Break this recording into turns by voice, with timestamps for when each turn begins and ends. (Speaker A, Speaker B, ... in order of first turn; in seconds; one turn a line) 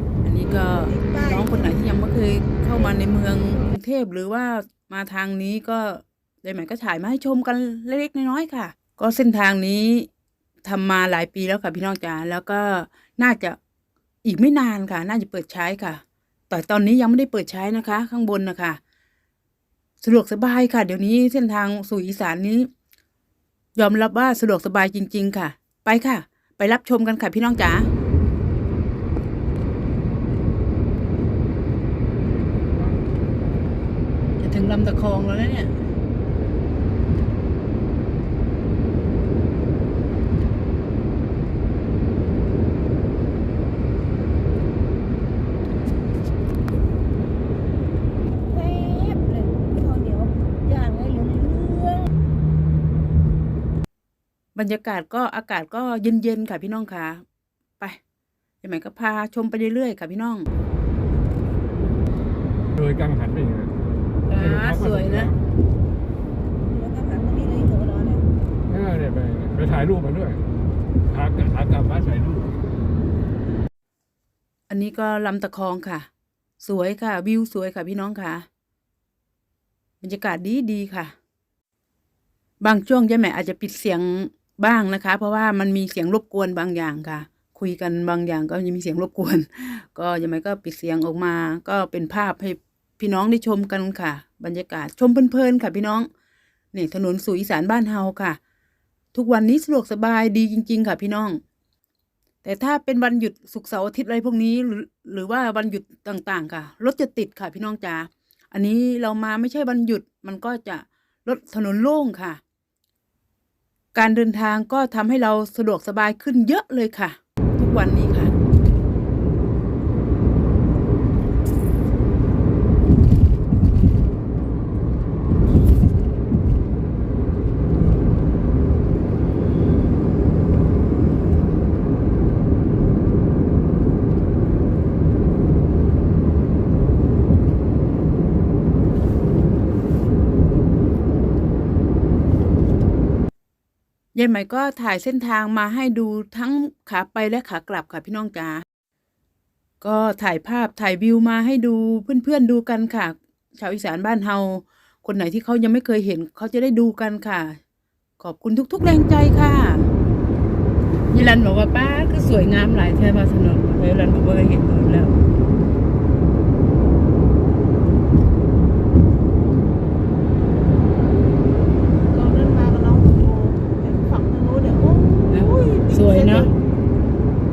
Speaker A: 0.2-10.1
Speaker B: 0.7-1.6
Speaker A: 10.6-13.6
Speaker A: 14.2-18.8
Speaker A: 20.0-22.7
Speaker A: 23.8-27.9
Speaker A: 34.4-35.8
Speaker B: 48.5-52.1
Speaker A: 54.5-57.2
Speaker A: 58.6-60.5
Speaker C: 62.8-63.7
Speaker A: 64.3-65.3
Speaker C: 64.3-65.3
Speaker B: 66.6-68.3
Speaker C: 68.7-70.4
Speaker C: 71.1-72.5
Speaker A: 74.7-76.1
Speaker A: 76.6-78.5
Speaker A: 80.0-81.1
Speaker A: 82.6-96.1
Speaker A: 96.7-98.4
Speaker A: 99.1-101.4
Speaker A: 102.4-112.4
Speaker A: 113.9-118.3
Speaker A: 144.1-148.6
Speaker A: 149.8-157.6
Speaker A: 158.2-159.9
Speaker A: 161.1-165.2
Speaker B: 172.1-176.5
Speaker A: 175.3-176.5